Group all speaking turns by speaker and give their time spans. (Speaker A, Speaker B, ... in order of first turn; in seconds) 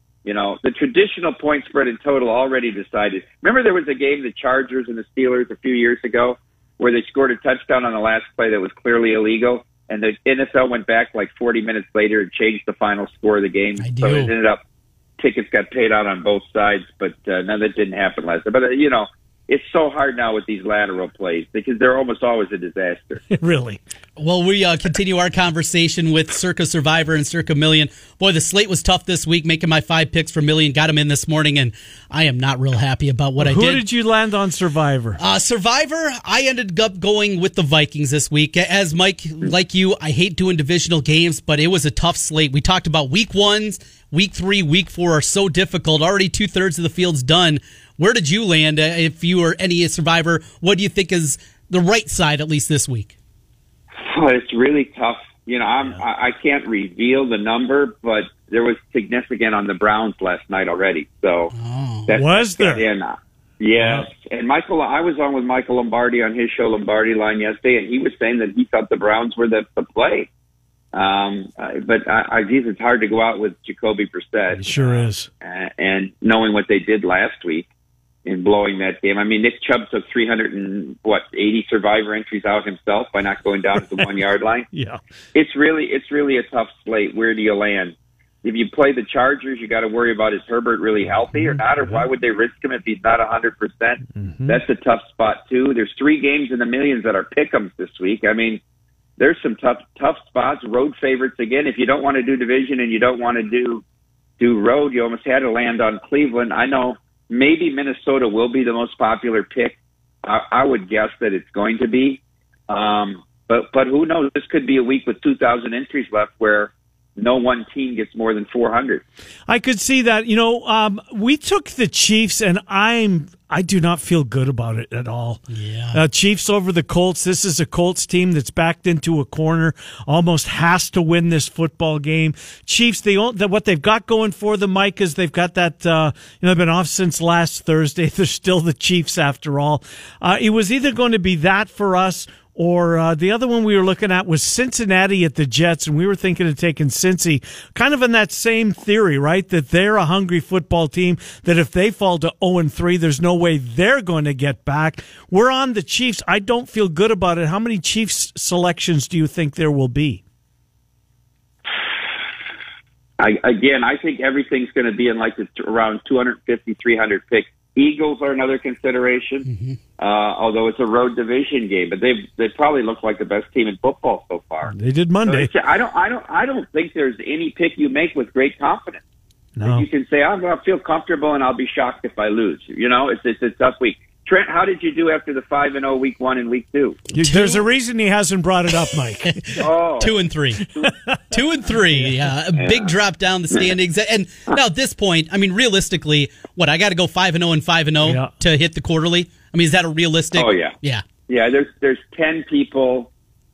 Speaker A: 0.2-14.6, 15.2-23.2, 54.0-61.5, 62.1-70.3, 70.9-77.7, 78.2-84.7, 85.3-98.6, 99.2-103.8, 104.4-119.0, 163.2-169.5, 170.0-174.7, 175.3-179.0, 179.6-187.0, 189.6-190.2, 192.6-192.9, 200.3-200.7, 201.3-203.1
Speaker B: 13.8-14.3, 24.2-33.8, 35.2-53.1, 61.5-62.1, 125.5-126.0, 169.4-169.8, 187.2-187.6, 189.2-190.7, 191.3-201.0
Speaker C: 23.3-23.8, 33.4-35.2, 62.1-62.9, 63.8-64.1, 74.5-75.3, 84.7-85.0, 91.3-92.0, 94.1-94.6, 119.5-125.4, 125.9-160.2, 174.7-175.5, 179.6-179.9, 187.1-189.6, 190.8-191.2, 198.0-198.3